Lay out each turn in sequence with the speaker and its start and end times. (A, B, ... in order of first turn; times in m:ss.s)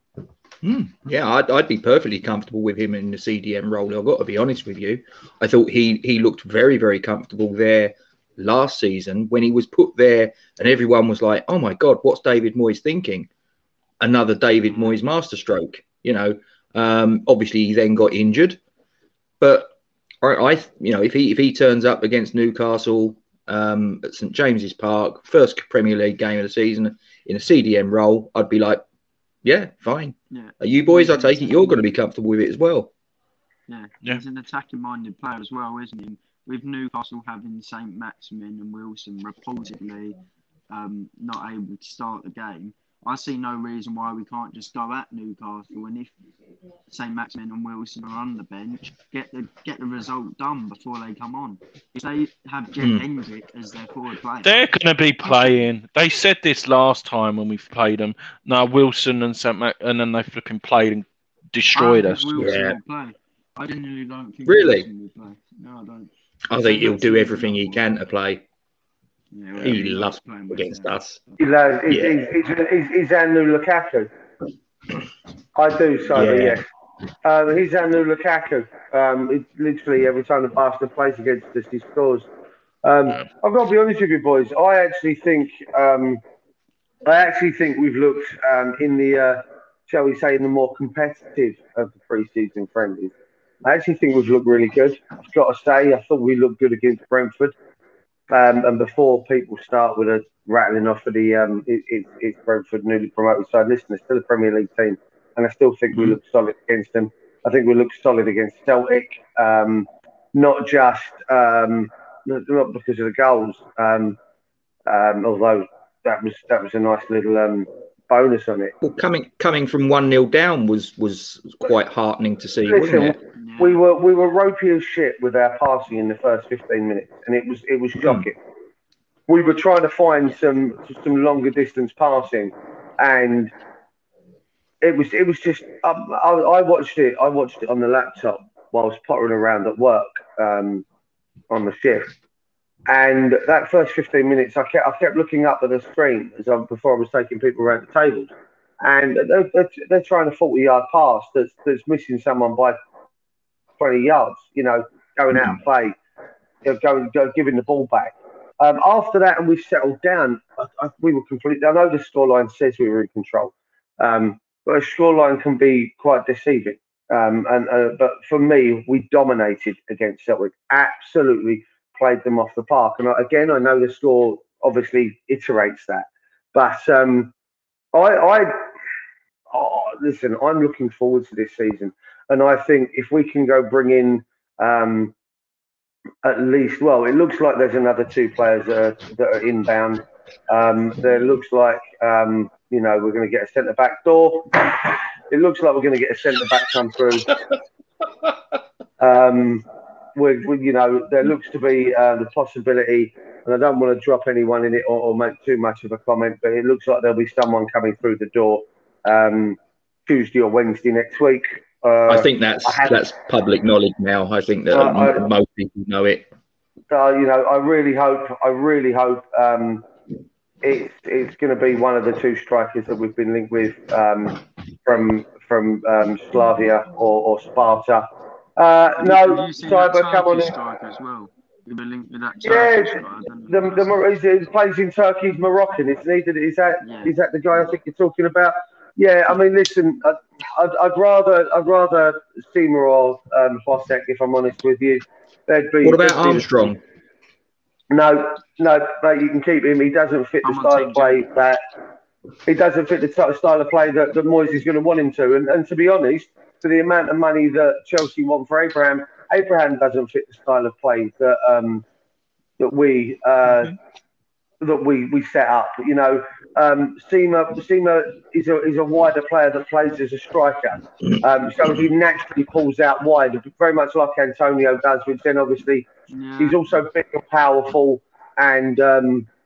0:00.6-0:13.3 A
0:14.0-0:18.6 A
0:19.4-0:28.8 A
0:29.4-0:32.9 A
0:30.3-0:31.8 B
0:33.7-0:40.2 B
0:40.7-0:46.1 B
0:46.9-0:54.7 B
0:52.8-0:53.0 A
0:54.4-1:02.5 C
0:55.2-0:55.7 B
1:01.7-1:07.8 B
1:02.4-1:02.8 A
1:04.4-1:04.9 A
1:06.5-1:08.4 A
1:09.3-1:11.4 B
1:09.6-1:11.2 A
1:11.4-1:14.1 D
1:11.9-1:12.2 A
1:15.5-1:16.6 D
1:16.1-1:16.6 A
1:17.2-1:22.3 D
1:22.8-1:26.2 D
1:27.0-1:33.1 D
1:33.6-1:37.5 D
1:38.3-1:54.2 D
1:54.9-1:58.7 D
1:58.8-2:03.2 A
2:02.7-2:08.4 D
2:03.4-2:03.8 B
2:09.3-2:13.5 D
2:14.8-2:20.8 D
2:21.5-2:22.1 D
2:22.9-2:28.3 D
2:28.8-2:32.8 D
2:33.8-2:36.0 D
2:36.6-2:57.3 D
2:57.9-2:58.7 D
2:59.5-3:05.1 D
3:06.2-3:17.3 D
3:19.0-3:33.0 D
3:32.1-3:36.3 A
3:34.7-3:35.3 D
3:36.9-3:39.8 D
3:40.6-3:48.0 D
3:48.6-3:50.5 D
3:49.0-3:54.0 B
3:52.4-4:06.7 D
3:56.8-3:57.1 B
4:05.8-4:06.8 A
4:07.9-4:11.6 D
4:10.4-4:11.3 B
4:12.4-4:21.8 D
4:22.6-4:23.7 D
4:24.6-4:35.8 D
4:36.1-4:36.6 B
4:36.4-4:39.3 D